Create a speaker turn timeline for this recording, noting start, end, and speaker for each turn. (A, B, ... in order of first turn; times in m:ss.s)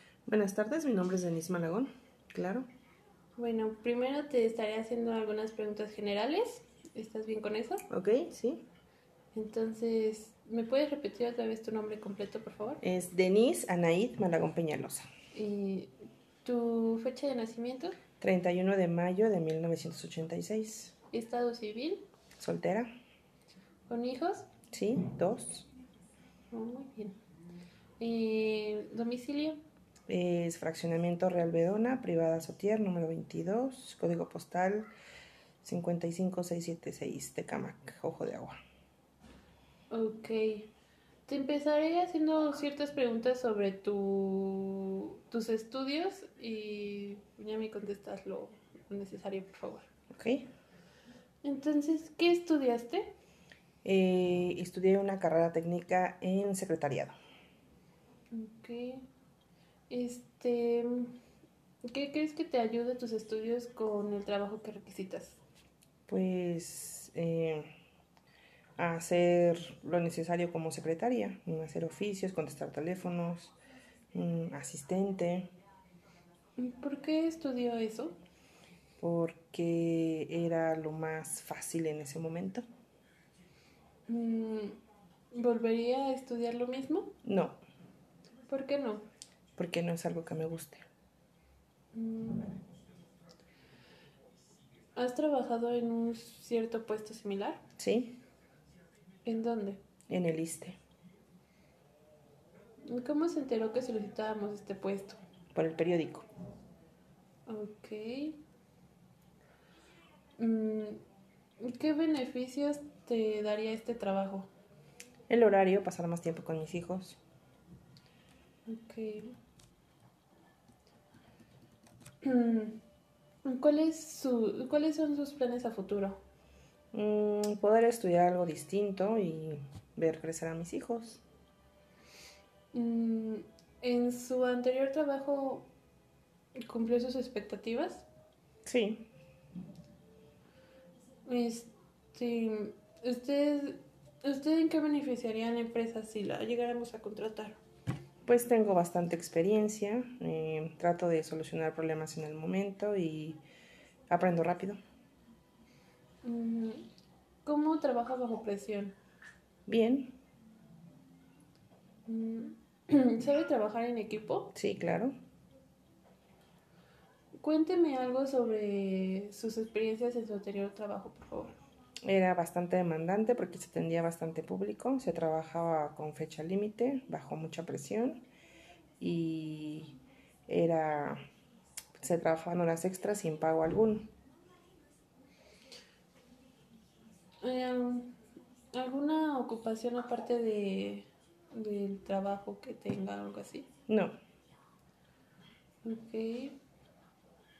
0:00.3-0:02.7 A
0:03.4-0:07.8 B
0:07.9-0:08.6 A
0:09.4-0:12.8 B
0:12.8-0:15.1 A
0:15.3-0:18.0 B
0:18.2-0:20.9 A
0:21.1-0:22.0 B
0:22.4-0:22.9 A
0:23.9-0:24.5 B
0:24.7-0:25.7 A
0:26.5-0:27.2 B
0:28.0-0:29.6 B
0:30.1-0:34.9 A
0:35.6-0:38.6 A
0:39.9-0:40.7 B
0:41.3-0:49.9 B
0:50.1-0:50.5 A
0:51.4-0:53.2 B
0:53.8-0:57.1 A
0:58.3-0:59.1 B
0:59.9-1:01.1 B
1:01.8-1:05.4 B
1:06.1-1:07.7 A
1:08.8-1:13.6 A
1:14.1-1:15.5 A
1:16.6-1:18.2 B
1:19.0-1:22.6 A
1:24.1-1:24.8 B
1:25.3-1:27.2 B
1:27.2-1:27.6 A
1:28.5-1:29.0 B
1:29.6-1:30.8 A
1:31.9-1:32.6 B
1:35.0-1:37.6 B
1:37.8-1:38.2 A
1:39.2-1:39.8 B
1:40.1-1:40.8 A
1:42.9-1:45.2 B
1:45.5-1:46.3 A
1:47.5-1:48.4 B
1:50.4-1:51.0 B
1:51.6-1:54.5 B
1:55.3-1:57.2 A
1:58.7-1:59.3 B
2:02.2-2:02.8 B
2:03.4-2:06.2 B
2:06.9-2:11.2 A
2:12.7-2:15.7 B
2:16.6-2:18.0 B
2:18.6-2:19.1 A
2:21.2-2:27.6 B
2:28.2-2:33.4 A
2:34.1-2:34.8 A
2:36.2-2:36.8 B
2:37.4-2:39.0 B
2:39.7-2:40.1 A
2:42.1-2:44.5 B
2:44.5-2:45.1 A
2:47.4-2:51.5 B
2:52.0-2:58.2 A
2:59.0-3:01.2 A
3:02.0-3:04.1 A
3:07.4-3:08.1 B
3:08.7-3:13.7 B
3:13.9-3:14.1 A
3:15.8-3:16.6 B